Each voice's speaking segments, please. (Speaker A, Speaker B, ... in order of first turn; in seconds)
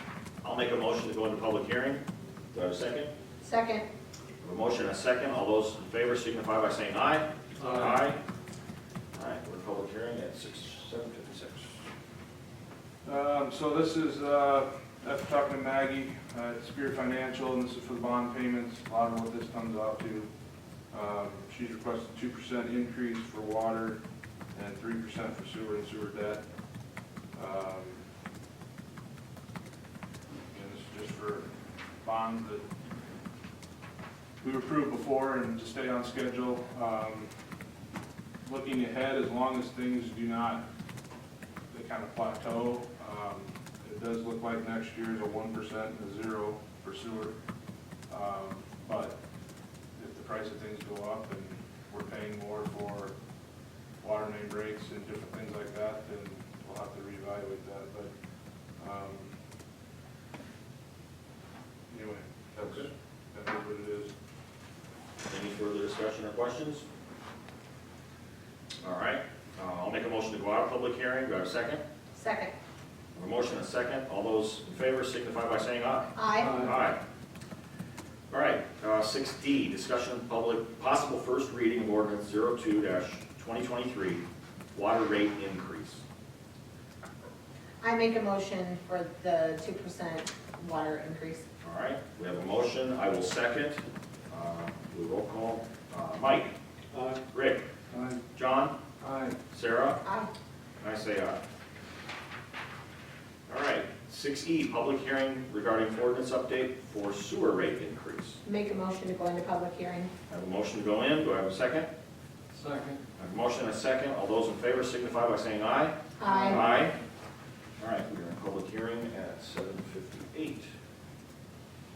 Speaker A: 0.4-3.1, 4.4-8.2, 9.1-11.7, 62.6-62.9, 65.3-66.8, 68.8-71.8, 73.1-77.0, 78.3-86.0, 91.6-96.5, 97.3-97.6, 98.3-98.8, 99.5-100.0, 100.8-101.4, 103.5-108.4, 110.3-111.9, 113.2-117.0, 117.8-120.7
Speaker B: 3.4-3.9, 72.2-72.5, 76.2-76.7, 87.8-91.4, 100.0-100.3, 108.4-110.1, 116.2-116.7
Speaker C: 13.0-20.3, 20.9-24.0, 24.5-26.4, 27.3-28.0, 30.5-31.5, 32.0-32.6, 34.4-37.3, 38.4-40.6, 41.7-47.3, 48.1-49.1, 49.9-53.1, 54.0-58.1, 58.8-59.3, 61.9-64.1, 76.4-76.7, 97.9-98.2, 99.0-99.3, 112.6-113.0, 116.3-116.6